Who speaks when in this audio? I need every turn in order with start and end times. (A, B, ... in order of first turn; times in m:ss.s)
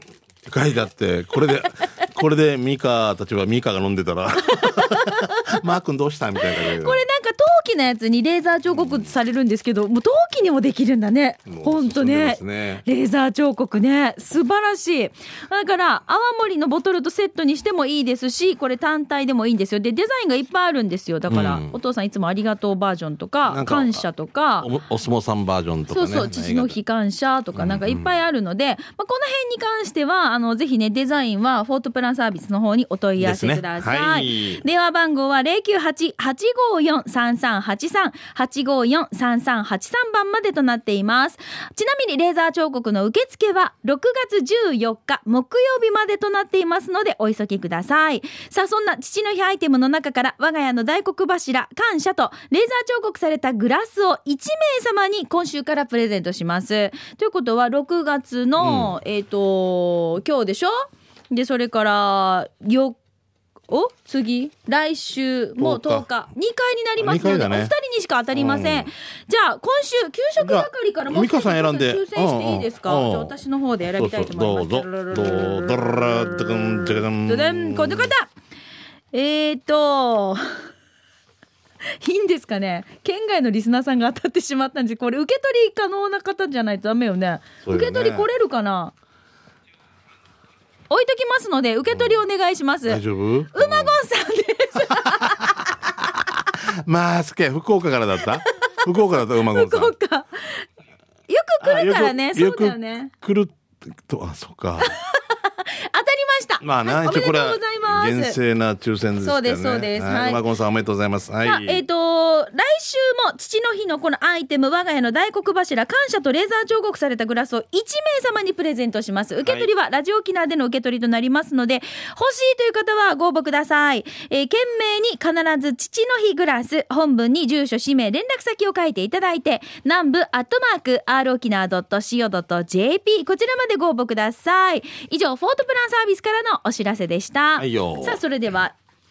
0:00.4-0:07.0 A
0:04.5-0:05.6 B
0:06.5-0:24.7 B
0:08.7-0:09.1 A
0:11.5-0:12.8 A
0:21.3-0:21.8 A
0:23.5-0:24.0 A
0:24.6-0:26.8 A
0:25.9-1:03.0 B
0:27.6-0:28.1 A
0:33.2-0:34.6 A
0:58.6-0:58.9 A
1:03.7-1:18.3 B
1:05.6-1:06.1 A
1:07.0-1:07.7 A
1:08.3-1:08.9 A
1:10.4-1:13.3 A
1:13.8-1:18.1 A
1:19.1-1:20.7 B
1:22.0-1:28.9 B
1:27.6-1:28.3 A
1:30.9-1:33.0 B
1:31.9-1:32.2 A
1:32.8-1:34.0 A
1:33.5-1:35.4 B
1:34.9-1:39.9 A
1:38.6-1:40.6 B
1:41.3-1:43.1 B
1:41.6-1:44.9 A
1:44.9-1:48.4 B
1:46.6-1:51.8 A
1:49.2-1:50.4 B
1:51.4-2:18.8 B
2:17.6-2:18.2 A